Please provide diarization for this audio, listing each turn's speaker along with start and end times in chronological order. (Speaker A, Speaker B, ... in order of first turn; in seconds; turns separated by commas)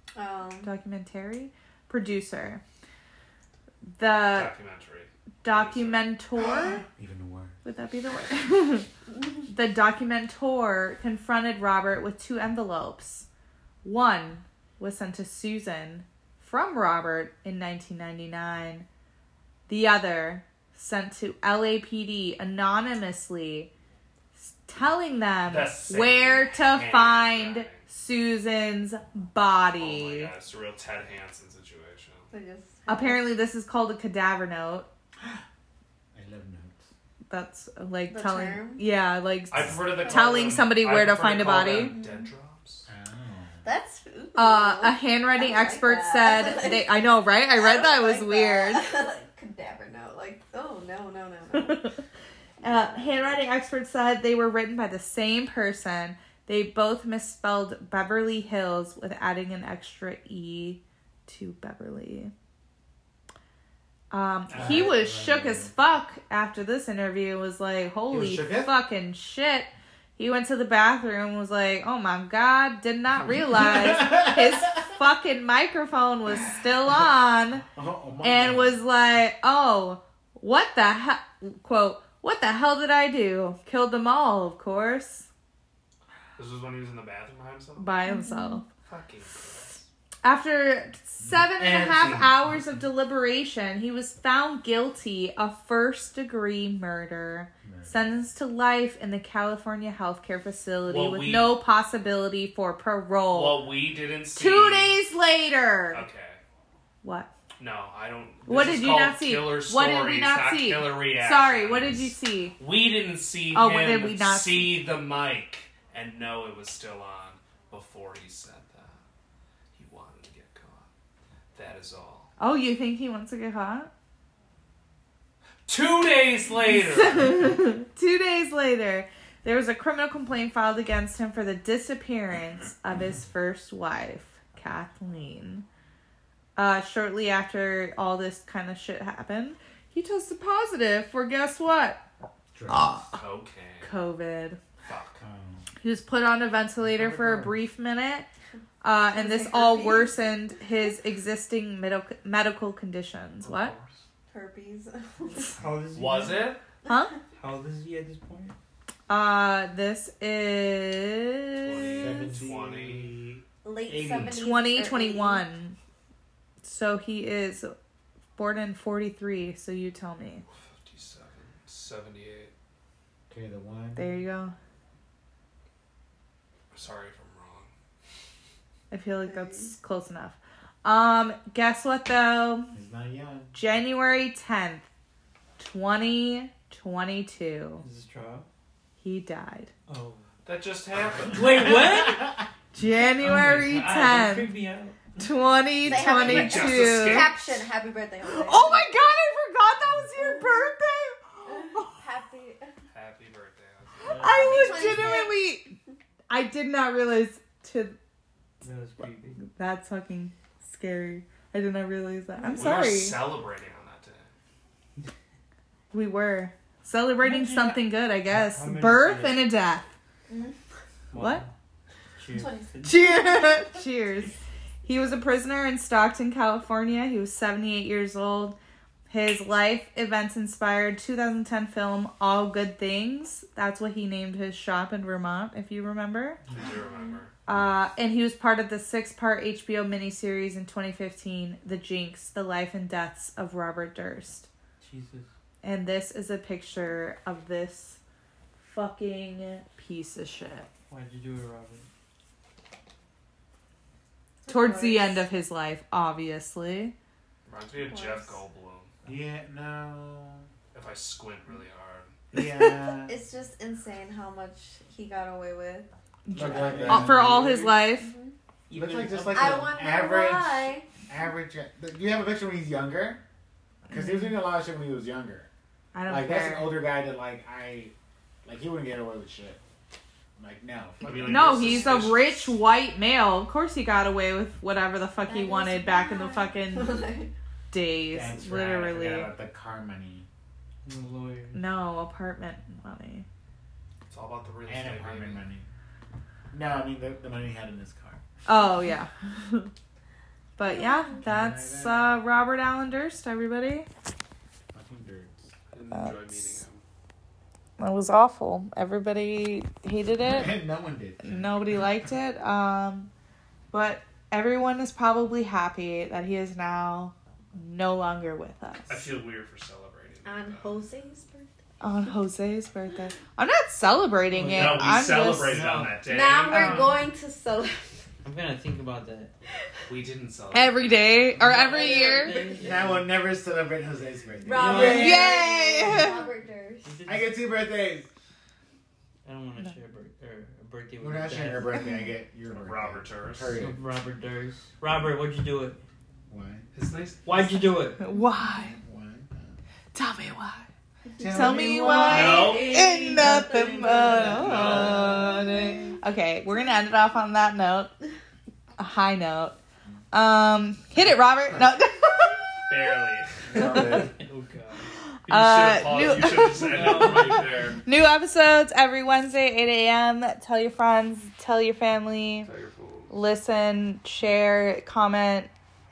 Speaker A: 0.1-0.7, Speaker B: 0.6-2.6, Speaker B: 4.0-4.5, Speaker C: 4.3-6.1, Speaker B: 5.4-6.8, Speaker D: 6.4-7.5, Speaker B: 7.6-8.9, Speaker B: 9.5-13.2, Speaker B: 13.8-18.9, Speaker B: 19.7-23.7, Speaker B: 24.3-30.3, Speaker C: 25.4-27.8, Speaker C: 29.8-32.3, Speaker A: 32.3-33.3, Speaker B: 32.9-34.9, Speaker D: 36.1-36.9, Speaker B: 37.3-42.0, Speaker A: 38.1-38.9, Speaker C: 39.5-42.9, Speaker A: 41.8-42.3, Speaker D: 42.9-43.7, Speaker A: 43.6-46.9, Speaker B: 44.4-48.8, Speaker A: 47.5-51.9, Speaker B: 51.5-52.0, Speaker A: 52.6-53.4, Speaker B: 52.6-62.3, Speaker B: 64.1-77.6, Speaker D: 64.5-65.7, Speaker D: 68.1-68.7, Speaker D: 73.7-74.3, Speaker D: 77.7-78.8, Speaker B: 78.2-85.3, Speaker C: 86.3-87.9, Speaker B: 87.8-88.7, Speaker A: 88.1-88.6, Speaker C: 88.8-89.8, Speaker B: 90.2-103.7, Speaker D: 91.2-92.4, Speaker D: 97.6-97.9, Speaker C: 100.9-101.6, Speaker C: 103.3-105.0, Speaker B: 104.3-106.0, Speaker C: 105.9-106.4, Speaker B: 107.0-107.3, Speaker C: 107.6-119.0, Speaker B: 108.5-112.5, Speaker B: 113.5-114.8, Speaker C: 119.7-120.9, Speaker C: 121.5-122.3, Speaker B: 122.4-123.9, Speaker C: 125.7-127.5, Speaker B: 126.8-135.6, Speaker B: 136.6-142.0, Speaker D: 142.5-143.1, Speaker B: 142.7-143.2, Speaker C: 143.1-144.0, Speaker B: 143.8-144.6, Speaker C: 144.8-145.2, Speaker D: 145.2-145.6, Speaker B: 145.8-148.3, Speaker E: 146.9-147.6, Speaker B: 148.8-153.7, Speaker A: 149.1-150.2, Speaker C: 153.4-154.0, Speaker A: 154.3-155.6, Speaker E: 155.4-156.6, Speaker C: 155.9-156.6, Speaker B: 156.8-157.2, Speaker E: 157.3-158.5, Speaker B: 159.1-162.3, Speaker C: 161.6-163.2, Speaker D: 161.9-164.4, Speaker A: 163.6-165.4, Speaker E: 163.9-164.3, Speaker B: 164.3-165.8, Speaker B: 166.6-167.7, Speaker B: 168.3-170.4, Speaker C: 170.7-172.5, Speaker D: 173.3-174.1, Speaker B: 173.9-174.5, Speaker C: 176.7-177.7, Speaker B: 178.9-182.7, Speaker A: 179.2-179.7, Speaker D: 182.7-183.6, Speaker B: 183.5-184.9, Speaker B: 185.6-187.8, Speaker E: 187.8-188.5, Speaker B: 189.0-189.7, Speaker E: 189.9-190.2, Speaker C: 190.4-191.8, Speaker E: 191.3-192.4, Speaker B: 192.7-194.5, Speaker E: 193.2-195.0, Speaker B: 195.2-197.3, Speaker A: 195.8-199.1, Speaker C: 195.8-197.4, Speaker B: 198.2-201.9, Speaker A: 200.1-200.7, Speaker A: 201.4-202.7, Speaker C: 202.9-204.2, Speaker E: 204.0-205.1, Speaker A: 204.2-205.4, Speaker B: 204.2-205.7, Speaker B: 206.3-208.0, Speaker E: 208.6-209.4, Speaker B: 209.5-213.2, Speaker A: 212.4-212.8, Speaker C: 212.5-214.3, Speaker B: 215.9-219.8, Speaker E: 217.2-219.4, Speaker A: 220.3-220.6, Speaker E: 221.1-221.5, Speaker B: 221.1-221.4, Speaker E: 222.2-223.0, Speaker A: 222.3-222.8, Speaker B: 222.8-228.6, Speaker B: 229.1-236.4, Speaker C: 236.5-237.3, Speaker B: 237.4-244.5, Speaker E: 244.8-245.3, Speaker B: 245.6-248.0, Speaker B: 248.6-250.7, Speaker E: 250.9-251.8, Speaker A: 254.4-255.2, Speaker B: 254.5-256.9, Speaker C: 257.4-258.9, Speaker A: 257.9-258.4, Speaker D: 259.1-260.5, Speaker C: 260.7-262.1, Speaker D: 262.3-263.2, Speaker A: 263.0-265.9, Speaker B: 266.2-268.1, Speaker E: 266.3-267.8, Speaker D: 266.3-267.5, Speaker A: 267.9-268.4, Speaker E: 268.7-269.7, Speaker D: 268.7-273.2, Speaker A: 269.3-270.9, Speaker B: 273.9-274.4, Speaker D: 273.9-275.5, Speaker B: 275.9-276.8, Speaker D: 276.1-277.9, Speaker D: 278.4-279.6, Speaker D: 280.4-282.1, Speaker C: 281.0-282.6, Speaker B: 281.2-287.1, Speaker A: 285.2-287.3, Speaker B: 287.7-289.3, Speaker D: 288.1-290.3, Speaker E: 290.9-291.6, Speaker B: 291.5-293.2, Speaker C: 294.1-295.4, Speaker D: 294.7-295.7, Speaker D: 296.5-298.2, Speaker B: 298.4-299.7, Speaker B: 300.6-303.9, Speaker A: 300.6-301.2, Speaker D: 301.2-302.2, Speaker D: 304.7-305.5, Speaker C: 305.7-306.8, Speaker B: 305.9-306.6, Speaker B: 307.8-310.6, Speaker D: 310.2-311.6, Speaker B: 311.2-313.1, Speaker B: 313.7-319.1, Speaker C: 318.9-320.8, Speaker A: 320.2-321.5, Speaker B: 321.8-325.7, Speaker E: 324.3-326.0, Speaker C: 324.4-326.9, Speaker A: 326.1-328.1, Speaker B: 326.5-327.0, Speaker E: 328.2-329.3, Speaker C: 329.9-331.4, Speaker B: 330.5-332.4, Speaker E: 331.4-333.1, Speaker A: 331.7-332.6, Speaker D: 332.5-335.3, Speaker A: 334.4-337.0, Speaker E: 334.5-336.1, Speaker B: 334.8-336.3, Speaker E: 336.8-337.4, Speaker D: 337.0-338.1, Speaker E: 339.2-341.8, Speaker D: 341.0-343.8, Speaker C: 342.5-343.6, Speaker E: 343.5-345.8, Speaker D: 346.3-346.6, Speaker C: 346.7-347.3, Speaker E: 347.2-348.0, Speaker B: 347.8-348.8, Speaker D: 348.7-349.6, Speaker B: 349.9-350.7, Speaker A: 351.1-355.4, Speaker D: 351.2-352.4, Speaker B: 351.2-357.9, Speaker C: 352.0-352.8, Speaker D: 353.8-355.9, Speaker C: 354.2-355.3, Speaker B: 358.8-359.5, Speaker B: 360.1-362.4, Speaker C: 362.7-367.8, Speaker D: 363.5-364.1, Speaker B: 365.1-372.5, Speaker E: 366.5-367.5, Speaker C: 372.4-373.1, Speaker B: 373.1-375.5